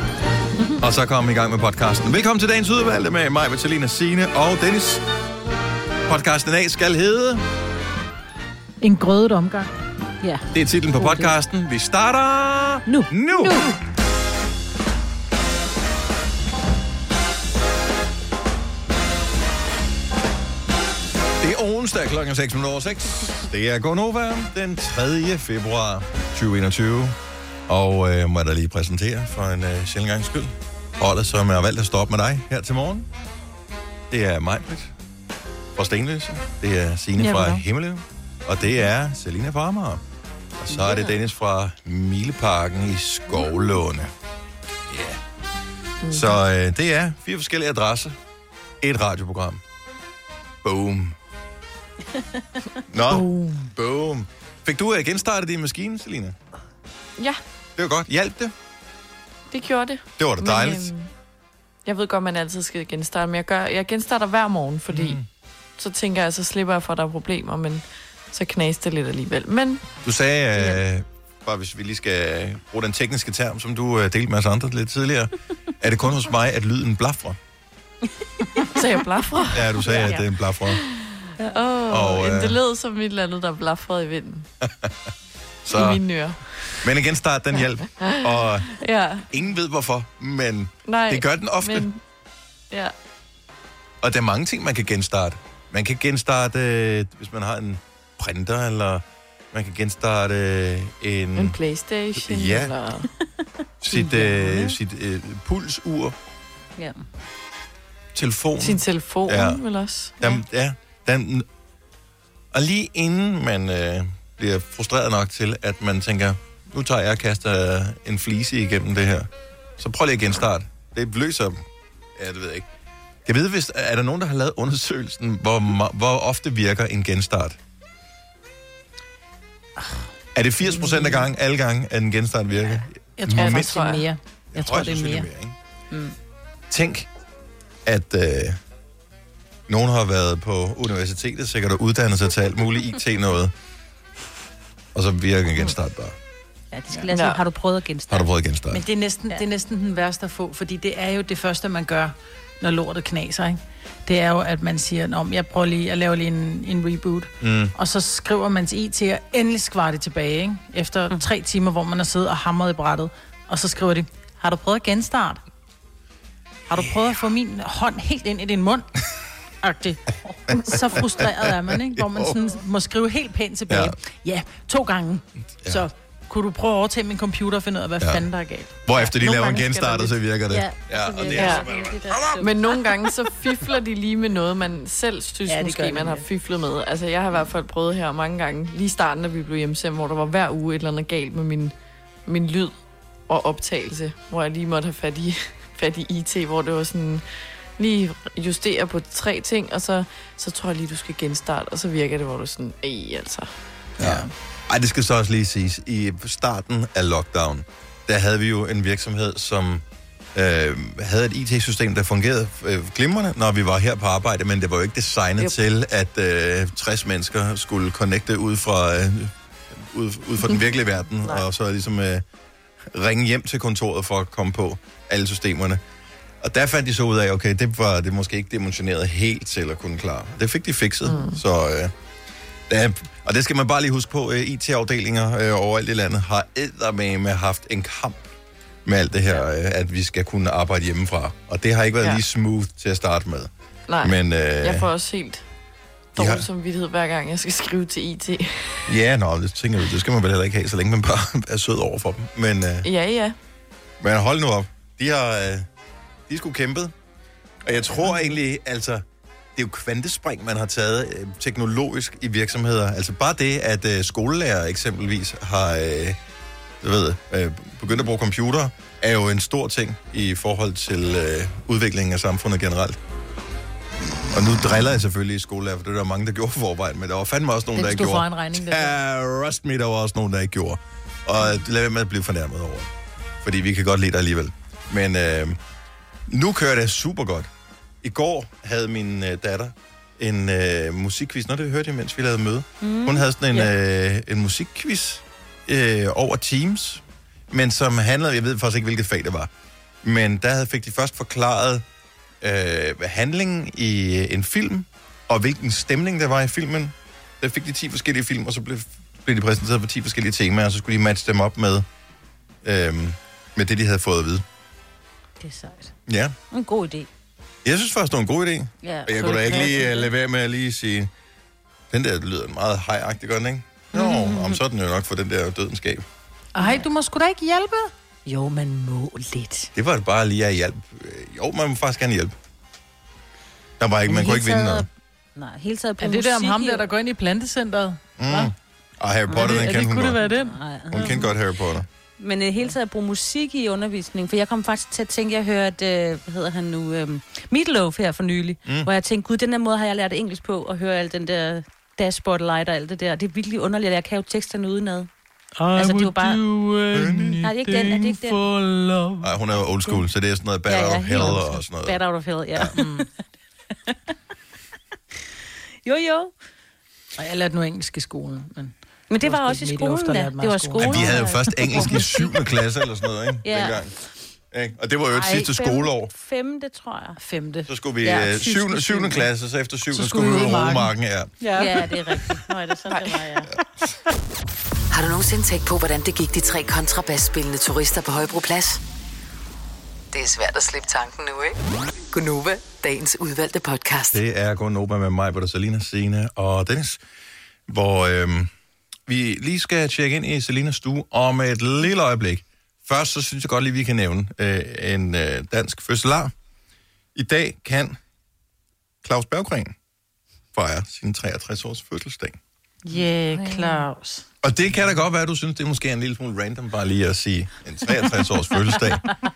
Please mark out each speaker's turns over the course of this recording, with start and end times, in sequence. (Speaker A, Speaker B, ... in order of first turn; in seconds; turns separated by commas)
Speaker A: 0.8-5.0, Speaker A: 6.1-7.4, Speaker B: 8.8-9.7, Speaker A: 10.5-13.7, Speaker C: 12.9-13.7, Speaker A: 21.4-27.2, Speaker A: 27.7-33.1, Speaker A: 34.1-34.9, Speaker A: 35.8-40.0, Speaker B: 37.2-37.6, Speaker A: 40.6-44.1, Speaker A: 44.9-45.2, Speaker A: 46.1-48.2, Speaker A: 48.8-49.6, Speaker A: 50.6-51.2, Speaker C: 52.1-52.8, Speaker A: 52.9-56.4, Speaker A: 57.8-58.5, Speaker D: 59.5-61.1, Speaker A: 60.2-60.9, Speaker D: 61.8-65.2, Speaker A: 64.9-65.2, Speaker D: 65.8-69.8, Speaker A: 70.0-77.4, Speaker D: 78.8-79.9, Speaker A: 79.5-80.8, Speaker D: 81.4-84.5, Speaker A: 81.9-82.6, Speaker A: 84.6-84.9, Speaker D: 85.7-86.8, Speaker A: 85.7-86.0, Speaker A: 86.8-88.7, Speaker D: 88.0-89.2, Speaker A: 89.3-91.9, Speaker D: 90.9-92.0, Speaker A: 94.0-101.6, Speaker D: 101.4-103.1, Speaker A: 102.2-102.7, Speaker A: 103.8-106.2, Speaker C: 104.0-104.7, Speaker A: 108.1-109.6, Speaker D: 108.6-110.1, Speaker A: 110.2-111.5, Speaker A: 112.5-121.6, Speaker A: 122.2-122.7, Speaker A: 123.2-127.6, Speaker B: 129.8-130.1, Speaker A: 130.3-133.9, Speaker B: 130.7-131.2, Speaker B: 133.2-135.3, Speaker D: 133.3-134.1, Speaker A: 134.5-135.6, Speaker A: 136.7-137.1, Speaker A: 137.8-138.6, Speaker A: 139.7-143.5, Speaker A: 144.9-146.2, Speaker C: 146.7-148.3, Speaker D: 147.1-147.4, Speaker A: 148.1-148.8, Speaker B: 148.7-165.4, Speaker A: 157.4-157.7, Speaker B: 166.7-168.9, Speaker B: 169.6-178.8, Speaker A: 171.2-172.3, Speaker A: 173.7-174.0, Speaker A: 178.0-178.2, Speaker A: 178.8-182.4, Speaker B: 179.6-180.0, Speaker C: 180.5-182.5, Speaker D: 181.3-181.7, Speaker D: 182.4-191.7, Speaker B: 185.5-186.2, Speaker D: 192.2-197.2, Speaker D: 197.8-203.5, Speaker A: 204.0-222.2, Speaker A: 222.9-225.8, Speaker A: 226.4-231.9, Speaker D: 231.1-231.4, Speaker A: 232.7-238.3, Speaker A: 238.8-243.5, Speaker D: 243.9-245.5, Speaker A: 244.0-244.9, Speaker D: 246.1-248.9, Speaker A: 246.2-246.4, Speaker A: 248.9-252.9, Speaker D: 252.8-253.4, Speaker A: 254.0-255.7, Speaker A: 256.3-256.9, Speaker A: 257.6-259.1, Speaker A: 259.6-266.2, Speaker A: 266.8-273.0, Speaker A: 274.3-282.9, Speaker B: 277.8-278.5, Speaker C: 277.8-278.9, Speaker A: 283.4-285.6, Speaker A: 286.3-287.5, Speaker A: 288.0-299.5, Speaker C: 292.8-293.7, Speaker A: 300.0-301.8, Speaker A: 302.4-311.9, Speaker A: 312.6-314.4, Speaker C: 315.4-315.9, Speaker A: 316.1-316.3, Speaker C: 316.5-317.1, Speaker A: 317.6-321.1, Speaker C: 318.8-320.1, Speaker A: 321.9-326.1, Speaker C: 323.9-324.6, Speaker B: 326.6-327.9, Speaker C: 326.6-326.9, Speaker C: 328.3-329.6, Speaker B: 328.8-329.5, Speaker A: 329.8-332.4, Speaker A: 333.8-334.9, Speaker C: 334.1-336.9, Speaker B: 336.0-338.5, Speaker A: 338.2-340.2, Speaker C: 339.3-341.3, Speaker B: 339.4-341.3, Speaker A: 340.9-341.9, Speaker C: 342.2-355.1, Speaker B: 355.6-359.2, Speaker C: 355.8-356.4, Speaker A: 356.9-357.4, Speaker C: 357.4-358.4, Speaker A: 359.2-362.0, Speaker C: 360.7-363.2, Speaker B: 361.2-361.4, Speaker B: 362.8-363.1, Speaker C: 365.9-366.3, Speaker B: 367.2-372.1, Speaker C: 369.1-372.3, Speaker A: 370.8-373.9, Speaker C: 373.4-373.9, Speaker A: 374.5-376.1, Speaker C: 375.1-377.2, Speaker B: 377.2-377.7, Speaker A: 377.7-381.3, Speaker C: 378.0-378.5, Speaker B: 378.4-379.2, Speaker B: 379.9-381.9, Speaker C: 381.6-383.5, Speaker D: 382.9-383.2, Speaker E: 384.9-388.8, Speaker E: 390.1-391.6, Speaker E: 392.1-394.2, Speaker A: 394.1-397.0, Speaker A: 397.7-398.5, Speaker A: 399.1-406.3, Speaker A: 407.1-408.0, Speaker A: 409.0-409.8, Speaker A: 410.5-412.4, Speaker B: 412.9-414.2, Speaker A: 414.4-419.1